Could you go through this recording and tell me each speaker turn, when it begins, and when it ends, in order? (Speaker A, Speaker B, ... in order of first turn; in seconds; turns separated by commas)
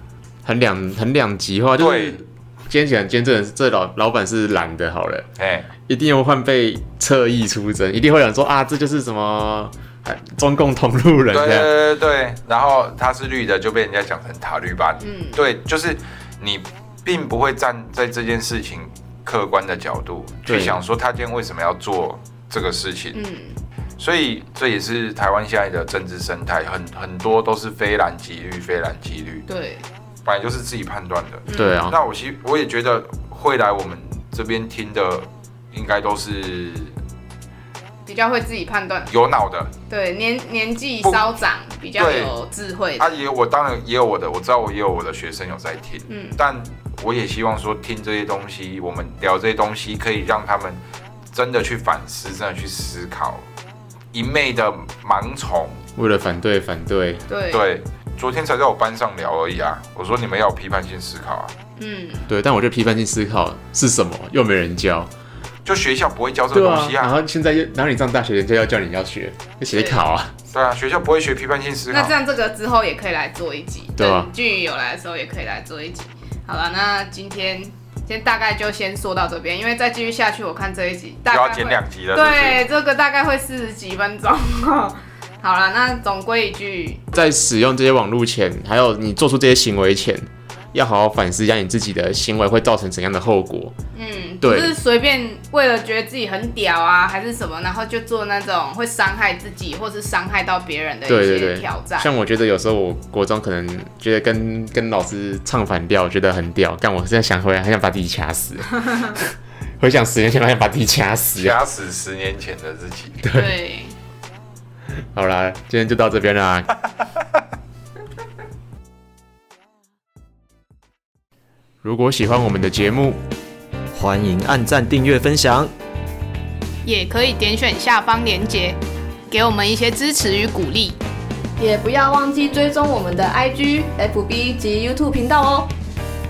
Speaker A: 0.4-5.2, Speaker B: 1.8-2.2, Speaker B: 5.4-5.7, Speaker A: 5.9-11.7, Speaker B: 11.3-23.2, Speaker C: 15.0-15.4, Speaker A: 20.4-20.8, Speaker C: 23.1-23.6, Speaker B: 24.0-29.4, Speaker C: 29.5-29.8, Speaker B: 30.2-36.9, Speaker C: 31.5-31.9, Speaker A: 31.5-32.0, Speaker C: 38.0-39.1, Speaker B: 39.1-39.7, Speaker C: 39.9-43.2, Speaker B: 41.0-41.4, Speaker B: 42.0-42.3, Speaker B: 43.0-50.8, Speaker C: 46.1-46.4, Speaker B: 51.3-53.4, Speaker B: 54.1-55.8, Speaker A: 56.0-57.2, Speaker C: 57.3-57.7, Speaker B: 57.5-61.5, Speaker C: 61.8-62.3, Speaker A: 62.3-65.1, Speaker B: 65.6-67.1, Speaker A: 66.5-70.3, Speaker C: 69.7-70.0, Speaker B: 70.5-72.2, Speaker C: 71.9-87.0, Speaker A: 74.0-74.3, Speaker B: 81.3-82.6, Speaker A: 87.1-93.7, Speaker C: 93.9-102.1, Speaker A: 94.4-94.7, Speaker A: 101.1-111.6, Speaker B: 111.3-113.2, Speaker A: 113.2-113.5, Speaker C: 113.3-114.0, Speaker A: 114.9-116.7, Speaker A: 121.8-123.2, Speaker D: 123.9-125.7, Speaker C: 126.8-128.8, Speaker C: 129.3-131.0, Speaker D: 131.6-132.6, Speaker E: 131.6-135.6, Speaker D: 133.6-135.7